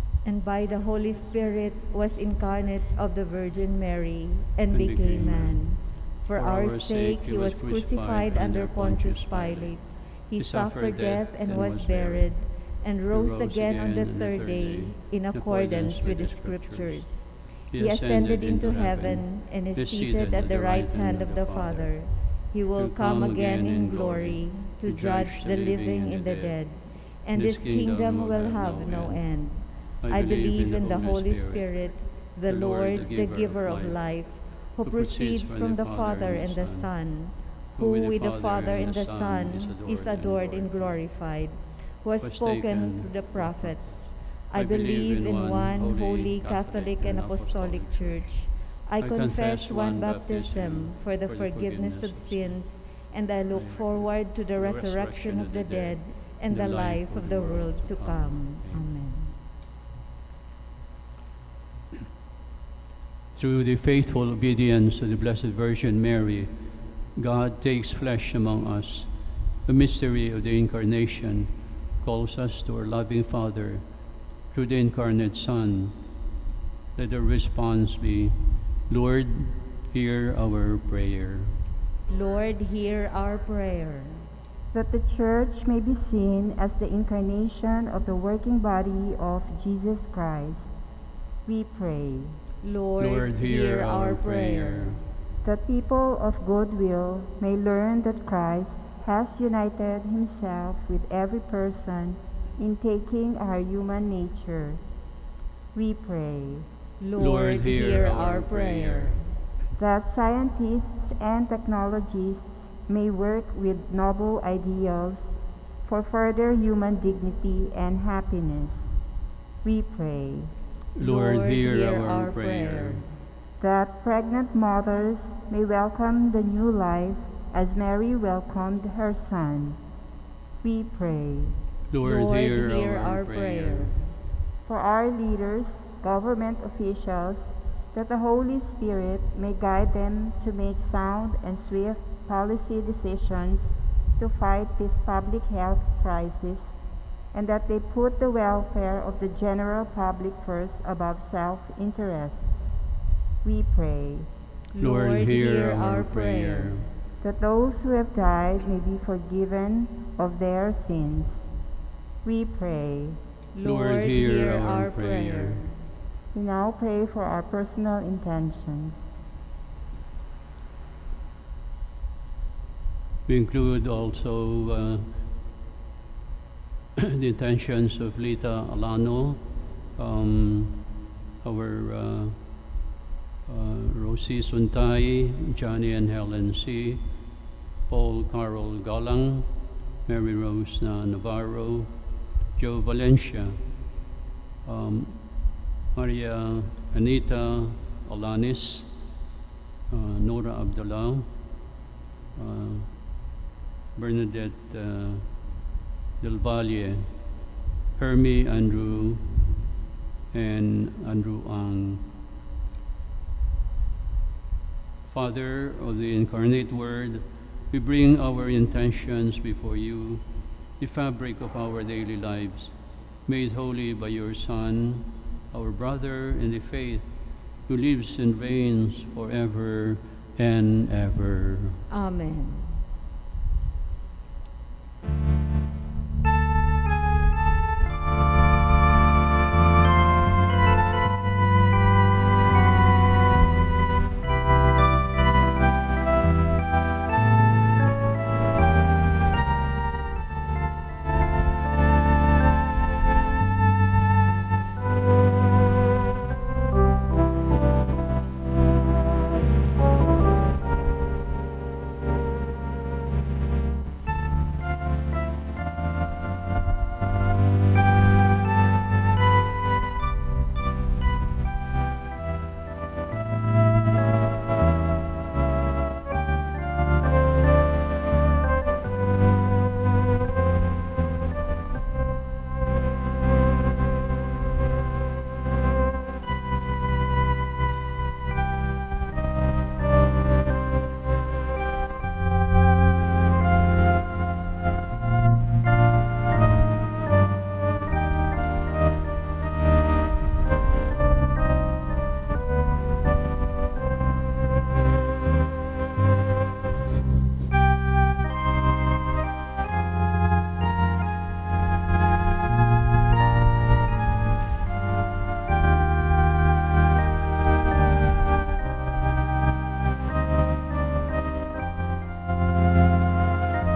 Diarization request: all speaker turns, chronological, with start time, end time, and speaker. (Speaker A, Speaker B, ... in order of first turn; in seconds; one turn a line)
Speaker A: 0.2-59.4
Speaker B: 4.7-12.5
Speaker B: 13.1-22.1
Speaker B: 22.8-31.7
Speaker B: 32.5-34.0
Speaker B: 34.8-36.9
Speaker B: 37.7-41.0
Speaker B: 42.2-52.7
Speaker B: 53.5-59.1
Speaker B: 63.4-73.9
Speaker B: 74.5-76.0
Speaker B: 77.0-81.6
Speaker A: 82.1-84.3
Speaker C: 84.7-90.8
Speaker C: 91.5-92.4
Speaker A: 92.6-95.0
Speaker B: 93.0-95.0
Speaker C: 95.4-104.8
Speaker C: 105.7-106.7
Speaker A: 107.0-109.3
Speaker B: 107.2-109.2
Speaker C: 109.8-118.9
Speaker C: 119.6-120.5
Speaker B: 121.0-123.1
Speaker A: 121.0-123.1
Speaker C: 123.6-129.8
Speaker C: 130.6-131.6
Speaker B: 131.9-133.9
Speaker A: 132.0-134.2
Speaker C: 134.7-146.7
Speaker C: 147.3-152.7
Speaker C: 153.4-154.3
Speaker A: 154.7-156.8
Speaker B: 154.8-156.9
Speaker C: 157.2-161.5
Speaker C: 162.2-163.2
Speaker A: 163.5-165.8
Speaker B: 163.6-165.7
Speaker C: 166.3-169.2
Speaker B: 173.3-175.1
Speaker B: 177.0-180.9
Speaker B: 181.4-182.7
Speaker B: 183.5-187.1
Speaker B: 187.9-189.5
Speaker B: 190.1-191.9
Speaker B: 192.6-193.6
Speaker B: 194.6-198.9
Speaker B: 199.9-201.3
Speaker B: 202.4-203.2
Speaker B: 203.9-205.4
Speaker B: 206.2-207.1
Speaker B: 208.0-209.3
Speaker B: 210.3-212.1
Speaker B: 215.1-220.2
Speaker B: 220.8-222.7
Speaker B: 223.3-227.1
Speaker B: 227.7-231.8
Speaker A: 231.9-232.8